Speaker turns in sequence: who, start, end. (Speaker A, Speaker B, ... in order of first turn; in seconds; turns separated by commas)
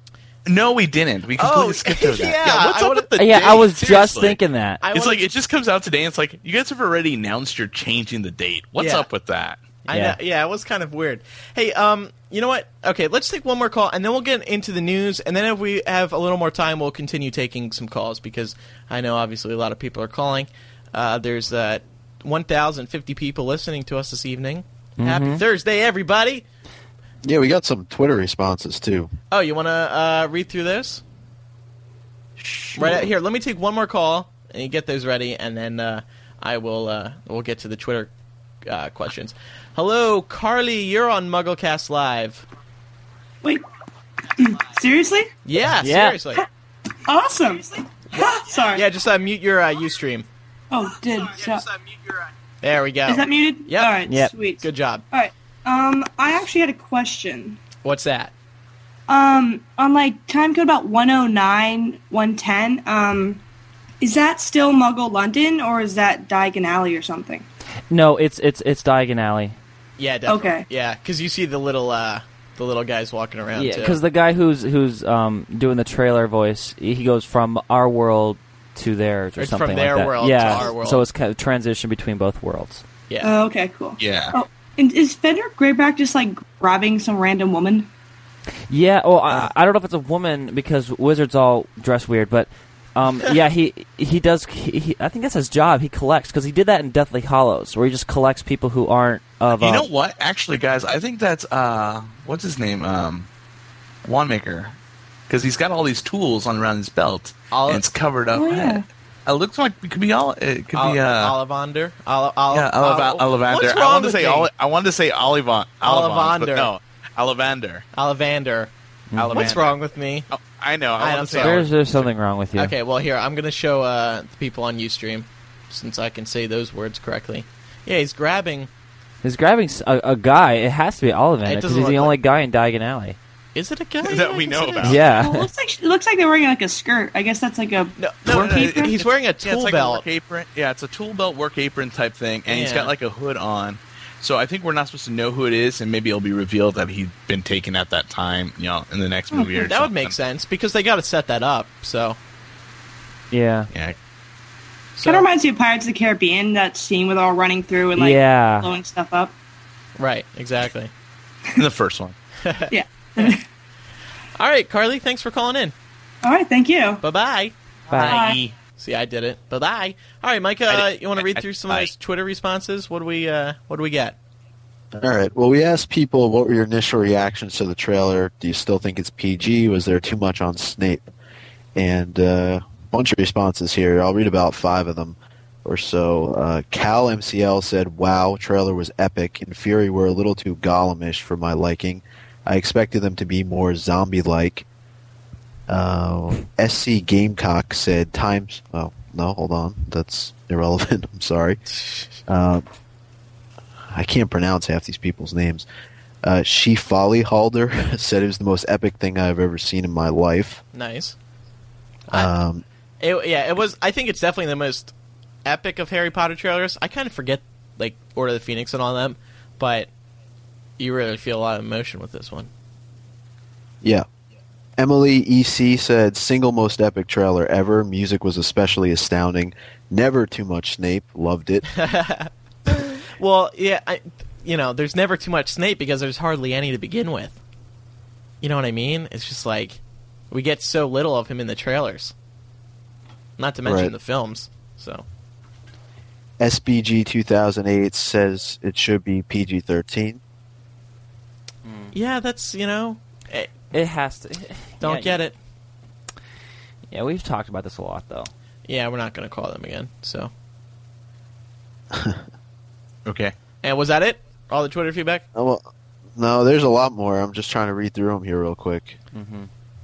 Speaker A: 0.5-4.4, Speaker B: 1.4-3.7, Speaker C: 3.2-4.8, Speaker B: 4.8-5.2, Speaker A: 4.9-9.6, Speaker B: 8.8-9.1, Speaker B: 9.8-26.4, Speaker C: 9.9-10.2, Speaker C: 25.0-25.4, Speaker D: 27.2-29.1, Speaker B: 29.3-31.0, Speaker B: 32.7-38.1, Speaker B: 38.6-42.4, Speaker E: 44.4-45.3, Speaker B: 45.4-46.4, Speaker C: 45.8-46.2, Speaker E: 47.1-48.9, Speaker B: 48.7-50.3, Speaker E: 50.7-51.7, Speaker B: 52.6-54.0, Speaker E: 53.0-57.6, Speaker C: 54.1-54.3, Speaker B: 54.6-55.0, Speaker B: 57.8-58.3, Speaker E: 59.1-63.4, Speaker E: 64.0-67.5, Speaker C: 67.9-69.6, Speaker B: 70.0-74.0, Speaker E: 70.3-70.7, Speaker C: 73.5-82.8, Speaker B: 79.4-81.0, Speaker E: 83.2-87.9, Speaker A: 84.0-84.4, Speaker C: 88.7-99.9, Speaker A: 99.6-103.3, Speaker A: 104.0-104.8, Speaker A: 105.3-111.3, Speaker B: 107.5-107.8, Speaker E: 108.3-108.8, Speaker B: 110.7-114.5, Speaker A: 112.5-117.8, Speaker B: 115.8-116.7, Speaker B: 117.9-118.7, Speaker C: 119.1-119.6, Speaker A: 119.2-119.8, Speaker B: 119.3-120.3, Speaker A: 120.3-122.0, Speaker B: 121.0-121.7, Speaker C: 121.4-122.7, Speaker B: 122.5-128.7, Speaker C: 129.2-133.2, Speaker B: 131.4-132.1, Speaker B: 133.5-134.7, Speaker A: 134.0-135.0, Speaker E: 134.1-139.0, Speaker C: 134.8-135.5, Speaker B: 138.0-140.0, Speaker A: 138.2-150.1, Speaker B: 142.5-142.9, Speaker B: 149.4-152.2, Speaker C: 153.3-153.7, Speaker B: 155.0-155.3, Speaker E: 155.0-159.3, Speaker C: 157.9-158.7, Speaker B: 160.0-160.9, Speaker A: 161.5-162.1, Speaker B: 162.4-163.3, Speaker E: 162.7-163.4, Speaker B: 164.3-165.7, Speaker E: 166.2-167.0, Speaker B: 167.0-167.5, Speaker C: 167.9-168.2, Speaker A: 167.9-168.5, Speaker E: 168.1-168.4, Speaker B: 168.8-174.2, Speaker A: 170.7-171.9, Speaker D: 174.9-181.1, Speaker D: 181.7-194.7, Speaker D: 195.7-201.6, Speaker B: 201.7-202.2, Speaker D: 202.3-202.6, Speaker D: 203.9-205.7, Speaker D: 206.2-210.6, Speaker B: 210.7-211.2, Speaker D: 212.1-212.6, Speaker B: 213.0-214.9, Speaker B: 215.4-219.9, Speaker B: 220.8-222.5, Speaker D: 224.8-231.7, Speaker B: 231.7-237.4, Speaker B: 238.4-239.8, Speaker B: 240.3-242.1, Speaker B: 243.4-245.0, Speaker D: 243.6-243.9, Speaker D: 246.4-250.2, Speaker C: 251.6-251.9, Speaker B: 251.9-253.5, Speaker C: 253.7-255.2, Speaker B: 254.8-255.3, Speaker C: 256.9-258.3, Speaker B: 258.7-260.3, Speaker D: 261.9-262.2, Speaker A: 263.1-263.3, Speaker B: 263.6-265.2, Speaker D: 265.3-269.0, Speaker C: 269.1-269.5